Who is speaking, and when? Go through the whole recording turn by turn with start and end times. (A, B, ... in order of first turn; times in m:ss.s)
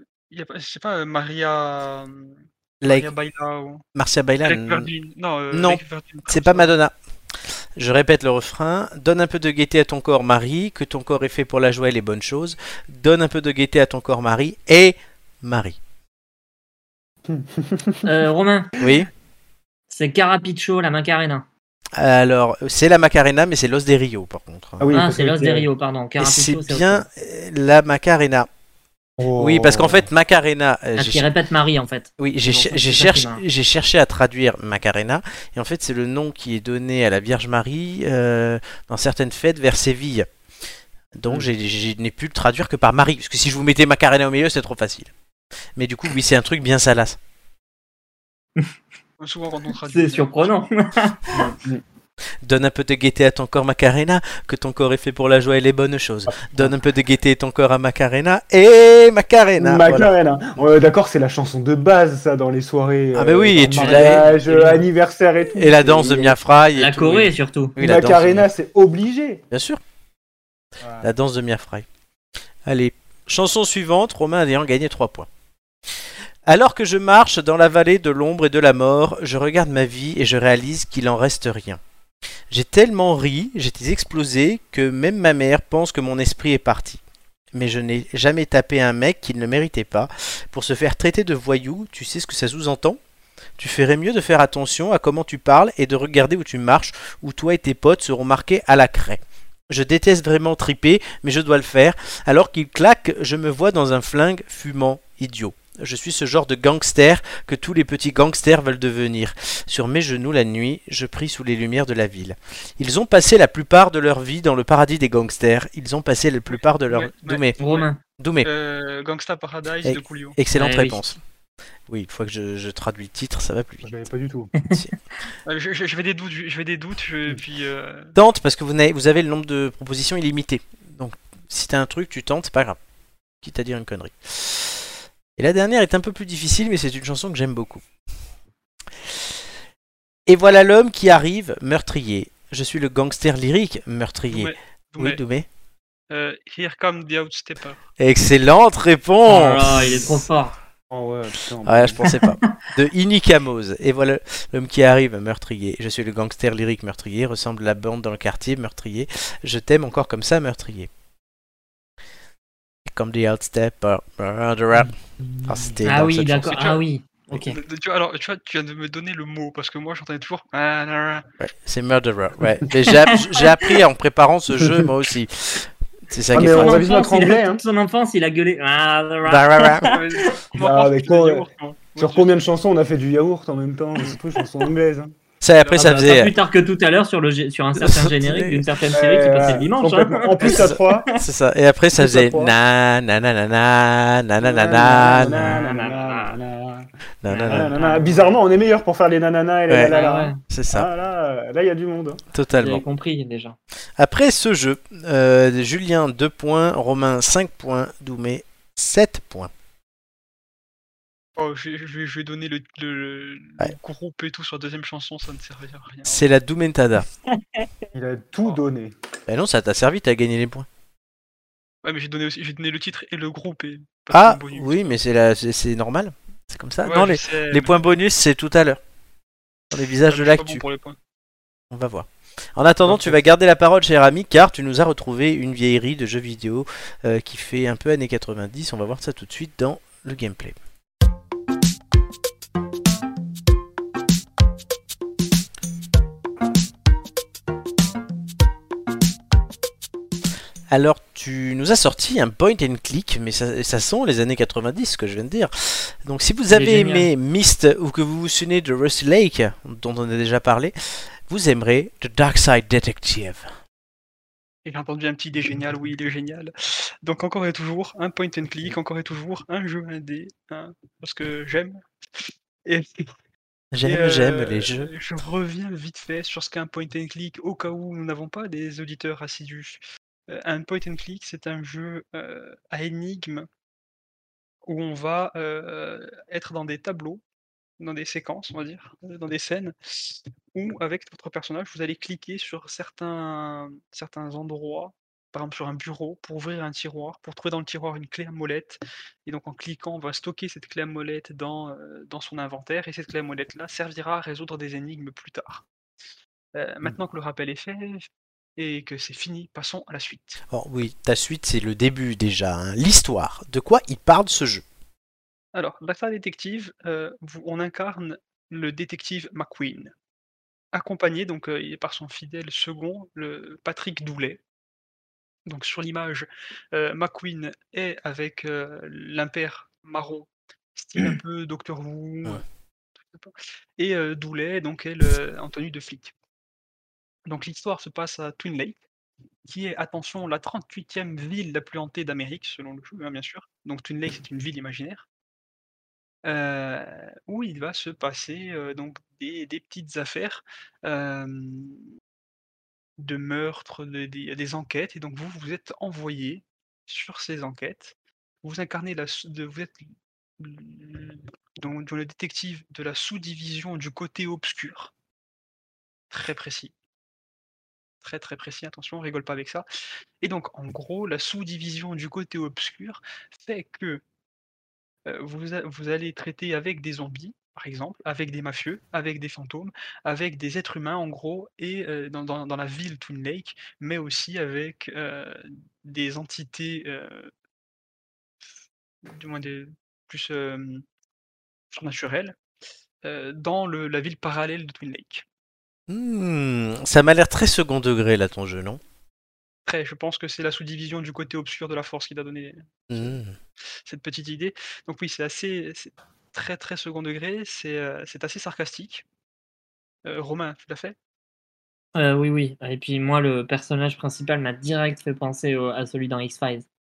0:00.3-0:03.8 A
0:02.8-0:03.1 B
0:04.0-0:04.9 B
0:04.4-0:06.7 A
0:05.5-0:07.0 B
0:07.8-0:15.8 B
0:17.3-0:18.0 C
0:18.0-0:18.7 D
0:18.8-0:19.1 B
0:19.9-0:21.5 D
0:22.0-0:24.9 B
0:24.8-0:25.7 C
0:24.9-0:27.1 D
0:26.2-0:28.5 B
0:29.2-0:30.1 C
0:29.4-0:31.3 B
0:31.0-0:33.4 D
0:32.2-0:40.3 B
0:41.1-0:45.1 B
0:45.8-0:47.2 B
0:49.2-0:50.6 A
0:49.9-0:51.6 D
0:52.4-1:00.1 B
0:56.3-0:56.7 C
0:59.6-1:06.4 C
1:03.1-1:04.3 B
1:03.7-1:04.8 D
1:05.5-1:08.5 B
1:06.8-1:07.8 D
1:07.8-1:09.4 C
1:09.5-1:09.8 B
1:10.8-1:11.1 C
1:11.0-1:11.8 B
1:12.7-1:15.3 B
1:16.5-1:21.8 B
1:22.5-1:27.0 B
1:27.5-1:33.0 B
1:33.6-1:57.6 B
1:56.5-1:57.9 A
1:57.6-1:58.0 D
1:58.2-1:58.5 B
1:58.4-2:00.4 A
1:59.8-2:01.2 B
2:00.6-2:01.0 D
2:01.9-2:03.9 B
2:03.8-2:04.5 C
2:04.6-2:04.9 D
2:05.5-2:08.2 A
2:08.2-2:12.8 B
2:13.4-2:17.8 B
2:20.3-2:25.5 B
2:24.3-2:25.2 A
2:26.1-2:27.8 A
2:28.0-2:30.2 B
2:29.3-2:30.6 D
2:30.9-2:32.0 C
2:31.6-2:40.9 B
2:32.0-2:32.5 D
2:42.9-2:46.7 B
2:45.3-2:45.8 C
2:45.9-2:47.6 D
2:46.5-2:46.8 A
2:47.5-2:51.2 A
2:51.4-2:56.9 B
2:52.9-2:53.7 D
2:56.3-2:57.6 C
2:56.4-3:00.4 D
2:59.2-3:00.0 B
2:59.8-3:02.4 A
3:00.6-3:01.4 C
3:02.0-3:05.1 C
3:05.4-3:06.4 B
3:05.6-3:06.2 A
3:05.8-3:11.0 D
3:07.8-3:08.7 B
3:08.9-3:11.1 C
3:10.4-3:15.6 B
3:12.0-3:12.6 C
3:14.4-3:16.9 C
3:15.3-3:16.4 D
3:17.2-3:17.7 B
3:17.3-3:18.3 D
3:17.5-3:22.2 C
3:19.7-3:20.9 B
3:19.9-3:20.4 D
3:22.3-3:22.8 B
3:22.6-3:23.6 D
3:24.0-3:29.5 B
3:31.4-3:36.3 A
3:36.1-3:37.1 B
3:37.3-3:37.7 D
3:37.9-3:38.9 C
3:39.3-3:40.7 B
3:41.8-3:44.8 A
3:44.1-3:48.8 B
3:46.8-3:47.8 A
3:49.7-3:50.6 B
3:50.0-3:51.0 A
3:51.7-4:00.6 B
3:52.9-3:53.2 A
4:10.7-4:20.8 B
4:16.5-4:17.1 D
4:21.3-4:23.5 B
4:24.6-4:33.1 A
4:33.7-4:34.9 B
4:33.8-4:43.5 A
4:44.7-4:47.2 A
4:47.8-5:05.6 A
5:06.5-5:10.4 A
5:10.5-5:14.6 B
5:15.5-5:19.9 A
5:20.7-5:24.4 A
5:25.5-5:32.4 A
5:33.1-5:36.1 A
5:37.3-5:38.8 A
5:39.5-5:45.1 A
5:46.2-5:51.9 A
5:53.0-6:04.9 A
6:06.1-6:06.7 A
6:08.0-6:09.6 A
6:10.2-6:14.0 A
6:15.1-6:27.3 A
6:29.0-6:30.8 A
6:31.7-6:32.4 A
6:33.0-6:35.2 A
6:35.9-6:38.8 B
6:39.7-6:43.1 A
6:42.9-6:43.4 B
6:43.9-6:49.0 A
6:50.0-6:51.0 A
6:52.0-6:56.7 D